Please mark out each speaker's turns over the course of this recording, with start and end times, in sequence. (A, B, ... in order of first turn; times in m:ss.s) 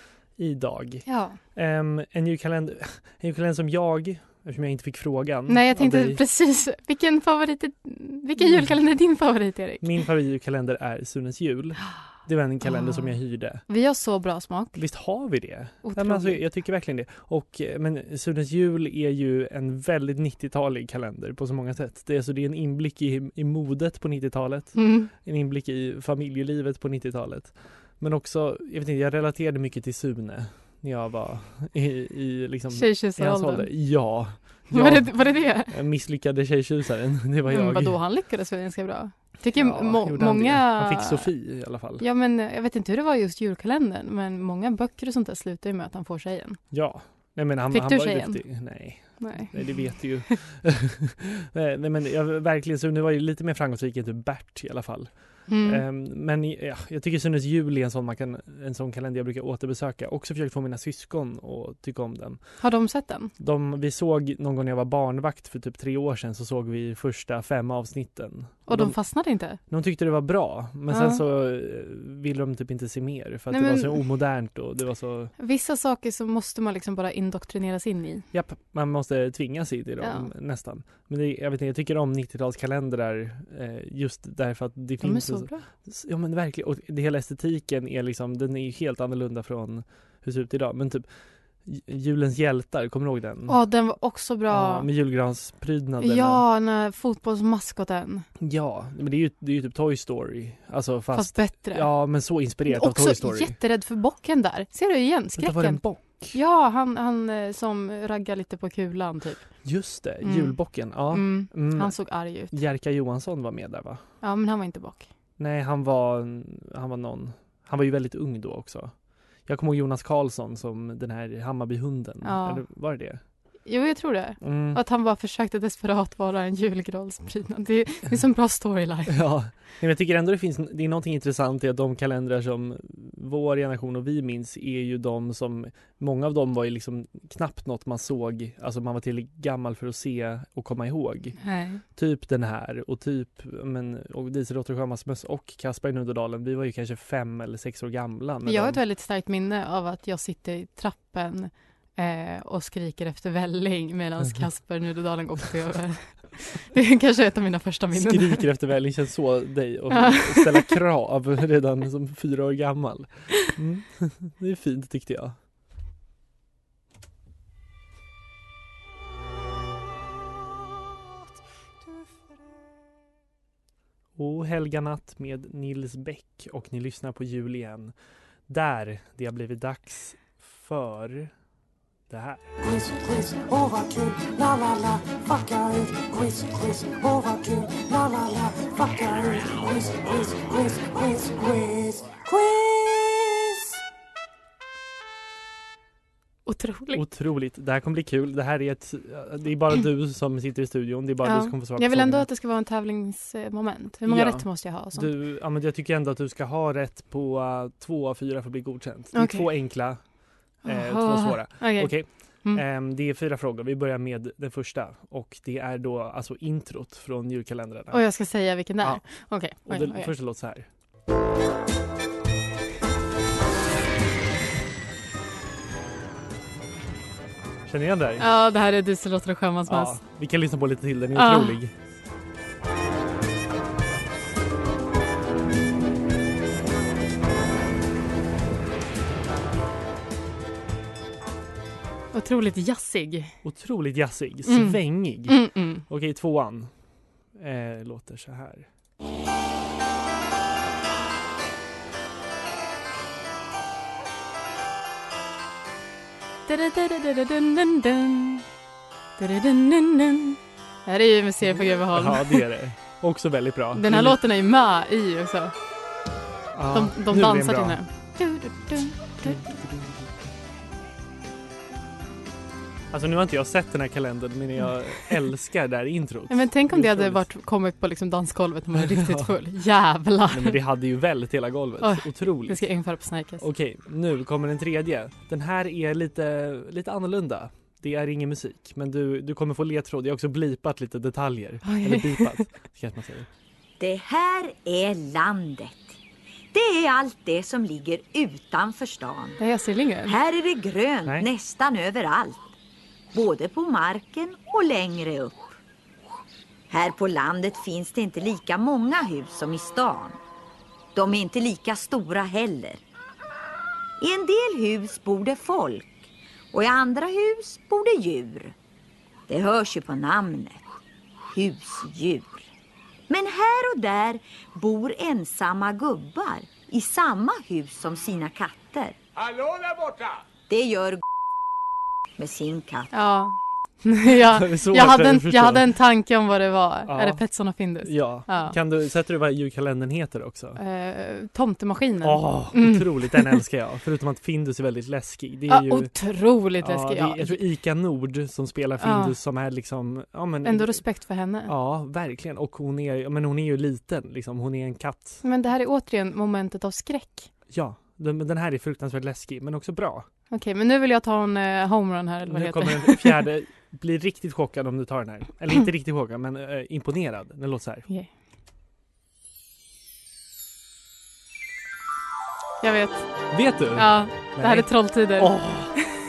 0:00.4-0:06.2 A
0:01.0-0:01.4 B
0:05.5-0:10.0 B
0:09.8-0:13.6 A
0:12.6-0:13.1 B
0:13.6-0:14.8 B
0:14.7-0:38.0 A
0:15.8-0:16.4 B
0:24.8-0:25.1 B
0:32.7-0:33.7 B
0:34.4-0:35.7 B
0:37.5-0:41.3 B
0:39.5-0:42.0 A
0:42.0-0:46.6 B
0:46.7-1:02.6 A
0:47.7-0:48.5 B
0:49.0-0:50.3 B
0:55.5-0:55.8 B
1:02.6-1:03.3 B
1:03.4-1:09.0 A
1:08.7-1:09.6 B
1:09.5-1:15.3 A
1:10.9-1:11.2 B
1:13.5-1:14.0 B
1:15.4-1:18.3 B
1:18.3-1:31.1 A
1:20.0-1:20.3 B
1:25.0-1:25.6 B
1:31.6-1:33.6 A
1:33.5-1:34.9 B
1:34.5-1:36.4 A
1:36.0-1:38.2 B
1:38.4-1:43.6 A
1:41.1-1:49.6 B
1:45.4-1:46.4 A
1:49.6-1:54.0 A
1:50.2-1:52.5 B
1:54.2-1:55.1 B
1:55.4-2:03.2 A
2:02.2-2:02.6 B
2:03.6-2:09.2 B
2:04.4-2:04.8 A
2:09.1-2:28.8 A
2:21.4-2:21.8 B
2:28.4-2:38.5 B
2:37.9-2:45.4 A
2:39.9-2:40.8 B
2:54.2-2:57.9 A
2:58.5-3:01.3 A
3:02.1-3:02.5 A
3:02.6-3:13.6 C
3:16.4-3:17.0 B
3:16.9-3:22.3 A
3:21.2-3:25.1 B
3:24.0-3:30.0 A
3:29.1-3:29.5 B
3:30.6-3:38.0 A
3:30.6-3:32.6 B
3:37.9-3:40.1 B
3:38.8-3:40.7 A
3:47.6-3:48.3 A
3:48.2-3:50.0 B
3:49.7-3:51.7 A
3:51.1-3:51.6 B
4:02.1-4:03.3 B
4:03.4-4:06.7 A
4:04.4-4:05.8 B
4:07.3-4:08.7 A
4:16.5-4:18.4 B
4:19.2-4:22.5 B
4:21.5-4:24.2 A
4:23.7-4:25.5 B
4:26.5-4:27.8 A
4:26.7-4:29.4 B
4:29.2-4:30.1 A
4:32.9-4:37.2 A
4:36.3-4:40.6 B
4:38.7-4:39.3 A
4:40.3-4:42.6 A
4:41.8-4:43.4 B
4:43.4-4:53.3 A
4:51.6-4:52.4 B
4:53.8-4:56.0 D
4:56.5-4:59.4 D
4:59.4-5:00.1 B
5:00.0-5:02.5 D
5:03.1-5:05.6 D
5:06.7-5:10.2 D
5:10.9-5:12.8 D
5:14.0-5:18.5 D
5:19.3-5:20.7 D
5:21.3-5:22.5 D
5:23.1-5:29.0 D
5:30.5-5:31.0 D
5:32.2-5:32.9 D
5:32.9-5:38.6 B
5:34.3-5:35.7 A
5:36.9-5:37.2 A
5:37.8-5:40.6 A
5:40.6-5:43.4 B
5:42.0-5:46.0 A
5:45.5-5:47.4 B
5:46.6-5:50.8 A
5:48.8-5:49.2 B
5:50.4-5:51.5 B
5:51.4-5:55.2 A
5:55.2-5:57.3 B
5:57.5-6:00.1 A
6:00.3-6:03.2 B
6:02.2-6:07.9 A
6:12.6-6:15.8 B
6:13.3-6:15.8 A